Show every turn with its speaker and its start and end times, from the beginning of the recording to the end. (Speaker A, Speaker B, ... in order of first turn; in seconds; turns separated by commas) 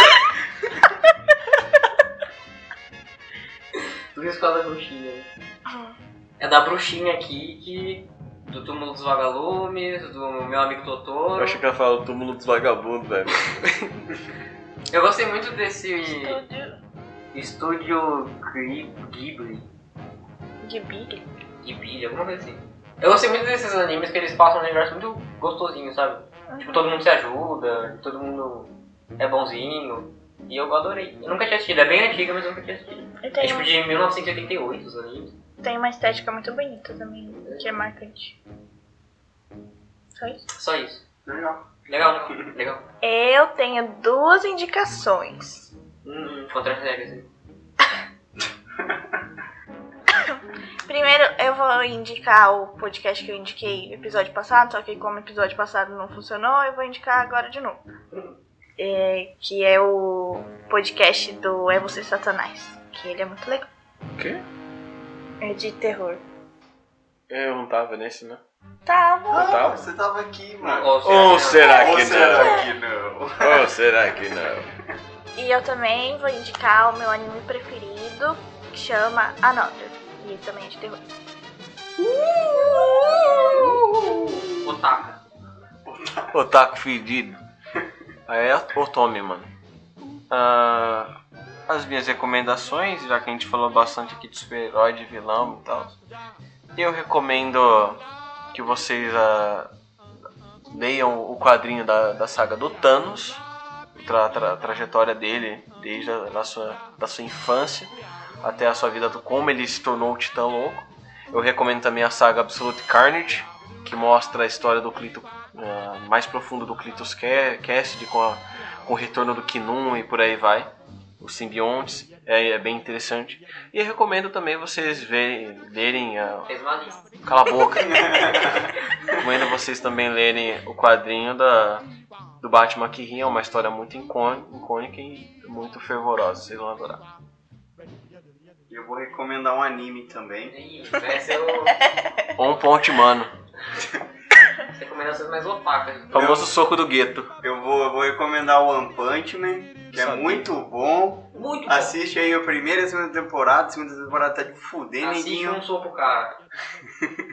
Speaker A: 4.1-5.3, Speaker B: 5.7-5.9, Speaker A: 6.4-11.6, Speaker C: 11.3-14.1, Speaker A: 14.9-16.4, Speaker B: 16.0-16.7, Speaker A: 17.3-19.7, Speaker B: 20.6-21.2, Speaker A: 21.6-35.3, Speaker B: 26.5-27.0, Speaker B: 33.2-33.7, Speaker B: 35.6-38.4, Speaker A: 37.4-37.7, Speaker B: 40.1-40.4, Speaker A: 40.5-41.0, Speaker D: 41.2-41.6, Speaker A: 41.9-42.8, Speaker B: 43.0-45.7, Speaker A: 46.0-47.3, Speaker B: 50.3-57.8, Speaker B: 58.8-63.6, Speaker C: 64.2-64.4, Speaker B: 65.4-66.2, Speaker C: 67.3-68.4, Speaker B: 68.8-69.6, Speaker D: 69.3-73.7, Speaker C: 69.3-69.9, Speaker A: 70.6-71.9, Speaker C: 71.0-72.6, Speaker B: 71.6-72.7, Speaker C: 73.4-74.7, Speaker B: 75.3-81.0, Speaker C: 82.2-84.2, Speaker B: 82.5-83.6, Speaker D: 83.8-84.5, Speaker A: 84.6-85.2, Speaker D: 85.8-86.3, Speaker C: 86.3-87.4, Speaker C: 88.3-89.5, Speaker C: 90.3-91.1, Speaker C: 91.7-96.0, Speaker C: 96.8-99.7, Speaker C: 100.7-103.4, Speaker C: 103.9-107.9, Speaker C: 108.4-120.7, Speaker C: 121.2-126.5, Speaker A: 126.5-127.0, Speaker C: 127.2-128.5, Speaker D: 127.8-129.2, Speaker C: 129.1-131.8, Speaker C: 132.4-137.0, Speaker D: 138.7-140.5, Speaker A: 140.5-141.8, Speaker B: 141.7-142.2, Speaker C: 142.3-143.3, Speaker A: 144.7-146.1, Speaker C: 146.1-147.3, Speaker D: 146.1-146.5, Speaker D: 147.4-155.6, Speaker C: 149.9-150.5, Speaker A: 151.3-151.9, Speaker A: 155.0-156.4